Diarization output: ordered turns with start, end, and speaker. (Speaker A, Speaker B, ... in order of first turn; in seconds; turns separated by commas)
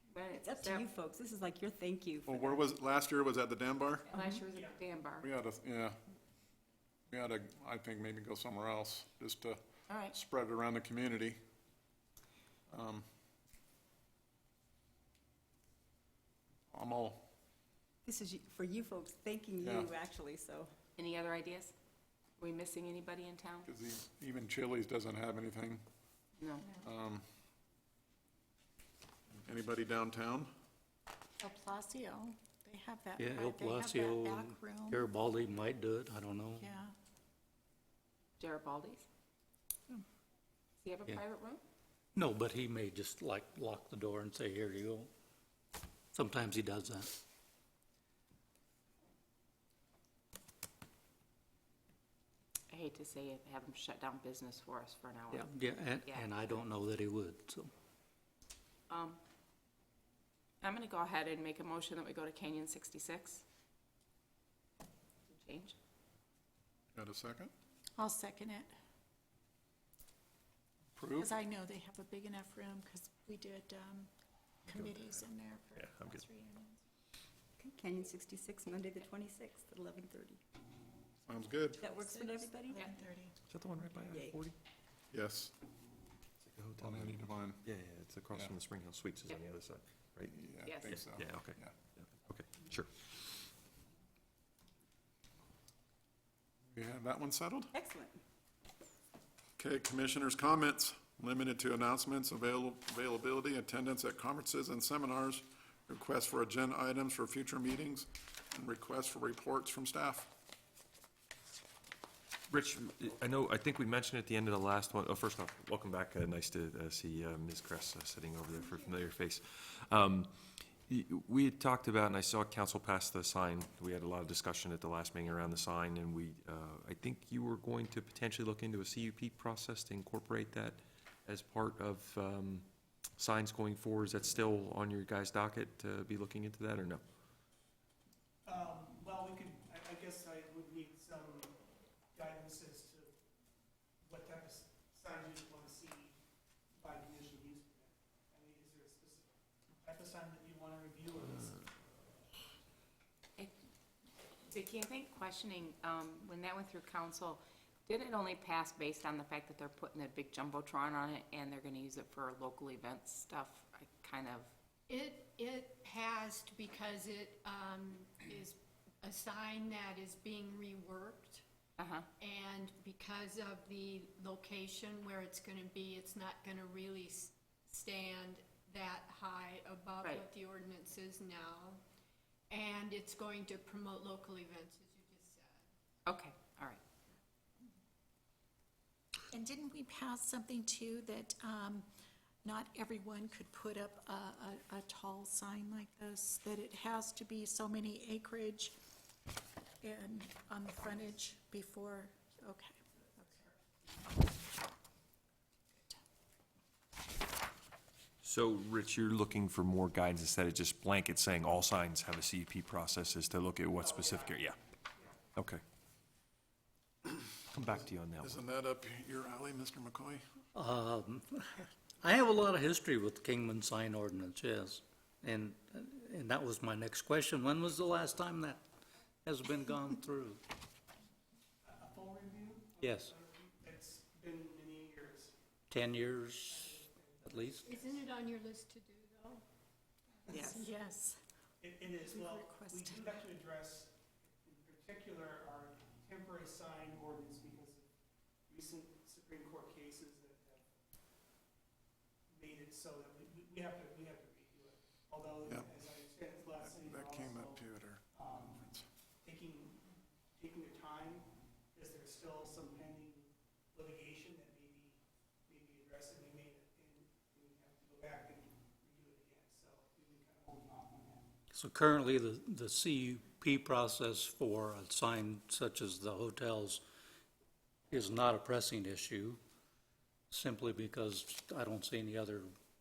Speaker A: 0.1-0.9, Speaker B: 0.3-2.7, Speaker C: 2.2-4.1, Speaker A: 4.1-5.2, Speaker B: 4.1-4.4, Speaker D: 4.5-4.8, Speaker C: 5.2-6.0, Speaker C: 7.1-11.4, Speaker A: 9.9-10.1, Speaker C: 12.7-13.1, Speaker C: 16.7-17.2, Speaker B: 18.0-20.7, Speaker C: 19.6-19.9, Speaker A: 21.0-21.7, Speaker A: 22.4-23.7, Speaker C: 23.6-25.8, Speaker A: 26.4-26.6, Speaker C: 26.8-27.2, Speaker C: 29.4-30.5, Speaker E: 31.4-35.0, Speaker F: 33.2-36.6, Speaker E: 36.6-36.9, Speaker A: 38.4-39.0, Speaker A: 40.8-41.6, Speaker F: 42.1-45.1, Speaker F: 46.1-47.1, Speaker A: 52.7-56.4, Speaker F: 55.3-57.7, Speaker A: 58.9-59.2, Speaker A: 60.6-63.4, Speaker A: 65.3-65.7, Speaker C: 66.9-67.5, Speaker E: 68.0-68.7, Speaker C: 71.0-71.3, Speaker E: 71.2-74.1, Speaker E: 74.7-76.8, Speaker G: 75.8-76.2, Speaker B: 77.6-80.4, Speaker C: 81.3-81.8, Speaker B: 81.8-82.9, Speaker E: 81.8-83.3, Speaker G: 83.5-84.5, Speaker B: 84.1-84.4, Speaker C: 85.1-85.5, Speaker G: 86.4-90.3, Speaker C: 86.8-87.7, Speaker C: 88.3-88.6, Speaker C: 90.2-91.7, Speaker A: 90.6-91.0, Speaker G: 90.9-93.1, Speaker C: 96.7-97.7, Speaker B: 97.7-98.2, Speaker C: 99.6-110.3, Speaker G: 112.5-120.3, Speaker G: 120.8-132.7, Speaker G: 133.2-137.0, Speaker D: 138.4-141.6, Speaker D: 142.1-143.2, Speaker D: 144.0-146.2, Speaker D: 146.8-151.6, Speaker A: 154.5-164.5, Speaker H: 164.9-171.4, Speaker A: 171.8-172.1, Speaker H: 172.2-181.8, Speaker H: 182.5-185.6, Speaker A: 186.1-186.8, Speaker E: 189.3-191.8, Speaker E: 192.4-198.7, Speaker E: 199.8-203.4, Speaker G: 208.2-214.6, Speaker D: 213.8-215.2, Speaker G: 215.3-215.6, Speaker G: 217.5-218.4, Speaker C: 217.6-220.2, Speaker F: 220.5-228.6, Speaker F: 229.2-230.4, Speaker D: 231.6-235.4, Speaker F: 232.8-233.1, Speaker F: 235.7-237.7, Speaker D: 236.4-238.0, Speaker H: 237.6-239.4, Speaker H: 240.3-240.7, Speaker E: 240.3-241.2, Speaker D: 241.6-247.9, Speaker E: 242.0-243.2, Speaker D: 248.5-250.7, Speaker D: 252.3-258.6, Speaker C: 256.6-258.9, Speaker D: 259.2-271.3, Speaker F: 271.5-276.8, Speaker F: 277.9-279.4, Speaker F: 280.3-282.5